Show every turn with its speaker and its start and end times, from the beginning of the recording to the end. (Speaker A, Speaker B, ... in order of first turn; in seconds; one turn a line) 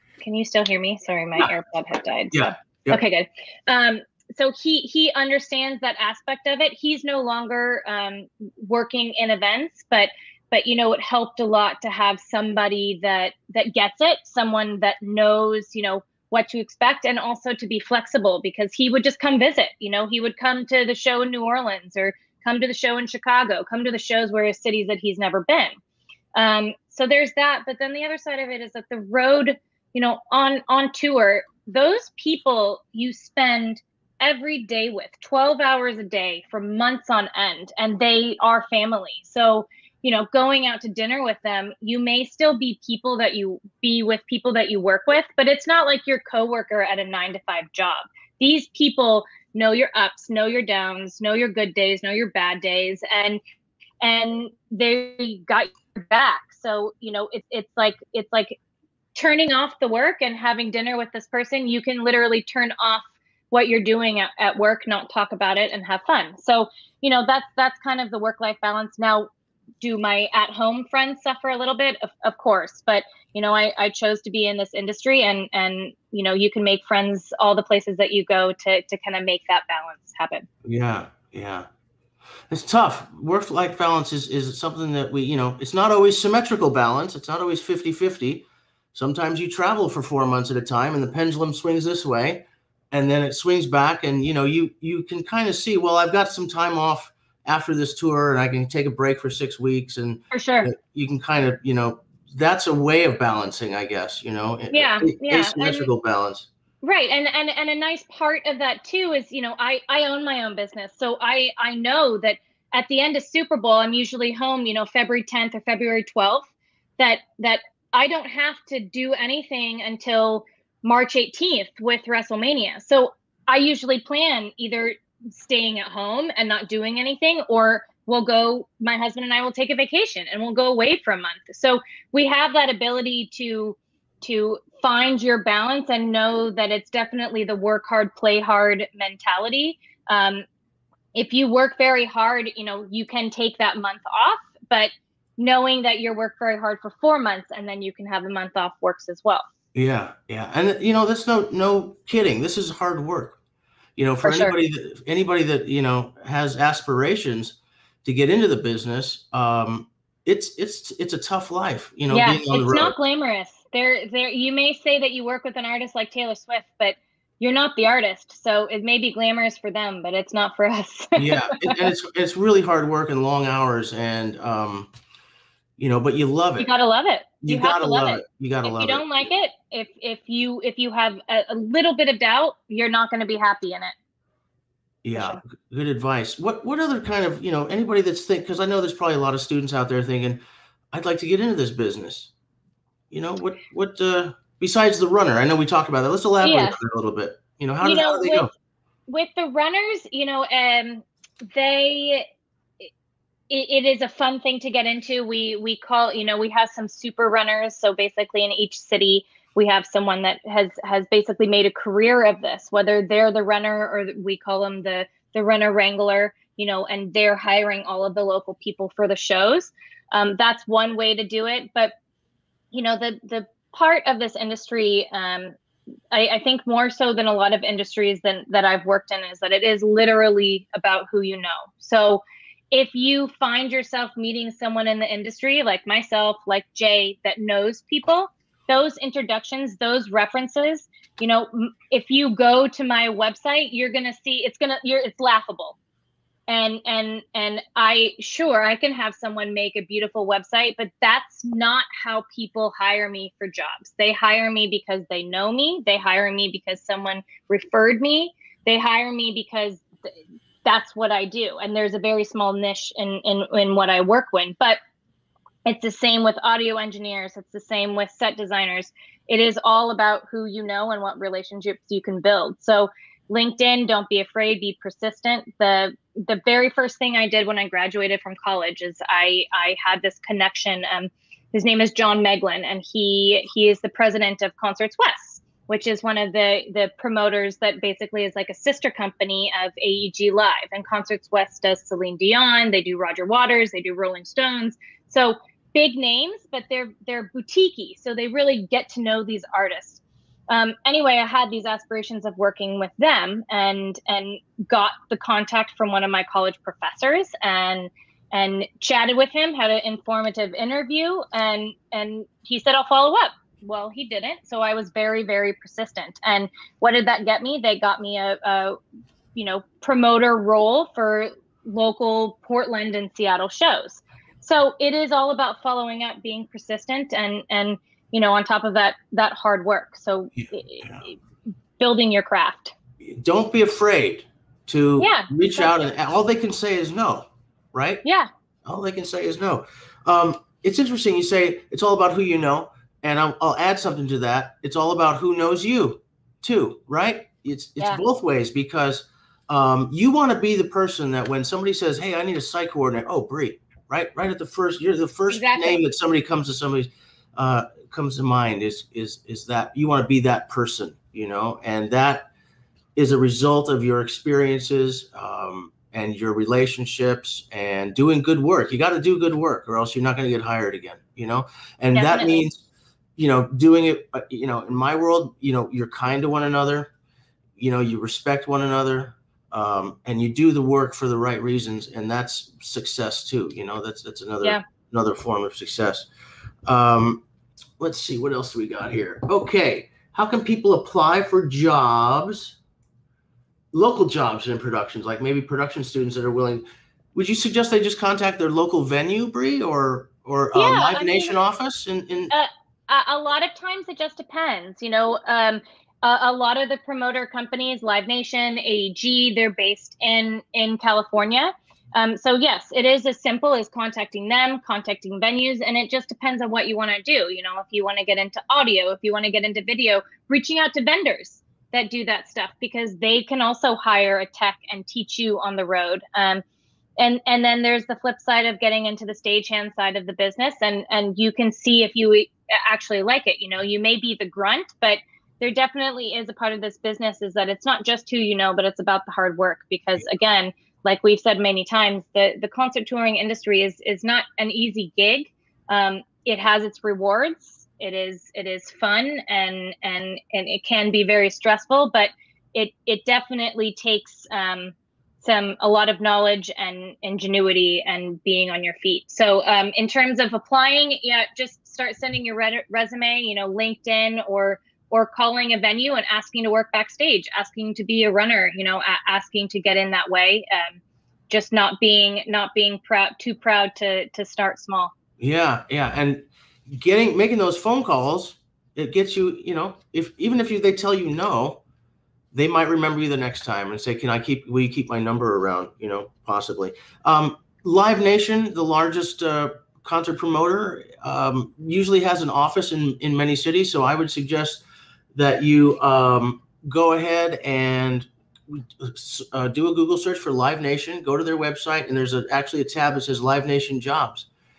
Speaker A: 0.2-25.8
Speaker B: 2.3-3.0
Speaker A: 26.4-53.4
Speaker A: 54.0-58.6
Speaker A: 59.1-69.3
Speaker A: 69.8-80.5
Speaker B: 80.6-81.7
Speaker B: 82.5-106.5
Speaker A: 100.3-100.7
Speaker A: 104.7-105.9
Speaker A: 106.8-116.5
Speaker A: 117.0-140.4
Speaker A: 141.1-149.4
Speaker B: 149.7-153.4
Speaker B: 153.9-162.9
Speaker A: 154.2-154.6
Speaker A: 162.1-171.9
Speaker B: 171.2-174.9
Speaker B: 175.8-176.7
Speaker A: 176.6-183.9
Speaker B: 177.4-179.0
Speaker B: 185.0-190.4
Speaker A: 185.1-185.4
Speaker B: 190.9-192.3
Speaker B: 193.1-198.5
Speaker A: 196.4-196.8
Speaker A: 197.8-198.5
Speaker A: 199.1-202.2
Speaker A: 203.5-221.9
Speaker A: 222.7-225.5
Speaker A: 226.1-245.8
Speaker A: 246.5-259.8
Speaker A: 260.6-264.8
Speaker A: 265.6-318.8
Speaker A: 319.3-331.1
Speaker B: 330.4-331.0
Speaker A: 331.8-332.7
Speaker B: 333.0-338.0
Speaker A: 335.0-335.8
Speaker A: 338.0-338.3
Speaker B: 338.6-362.3
Speaker A: 355.3-355.8
Speaker B: 362.9-372.6
Speaker A: 371.9-372.4
Speaker B: 373.2-376.9
Speaker B: 377.6-386.1
Speaker B: 386.6-387.2
Speaker B: 387.8-392.6
Speaker B: 393.7-396.6
Speaker B: 397.1-402.3
Speaker A: 400.5-401.4
Speaker A: 402.3-426.4
Speaker A: 427.0-474.9
Speaker B: 475.2-481.6
Speaker B: 482.3-494.6
Speaker B: 495.1-504.3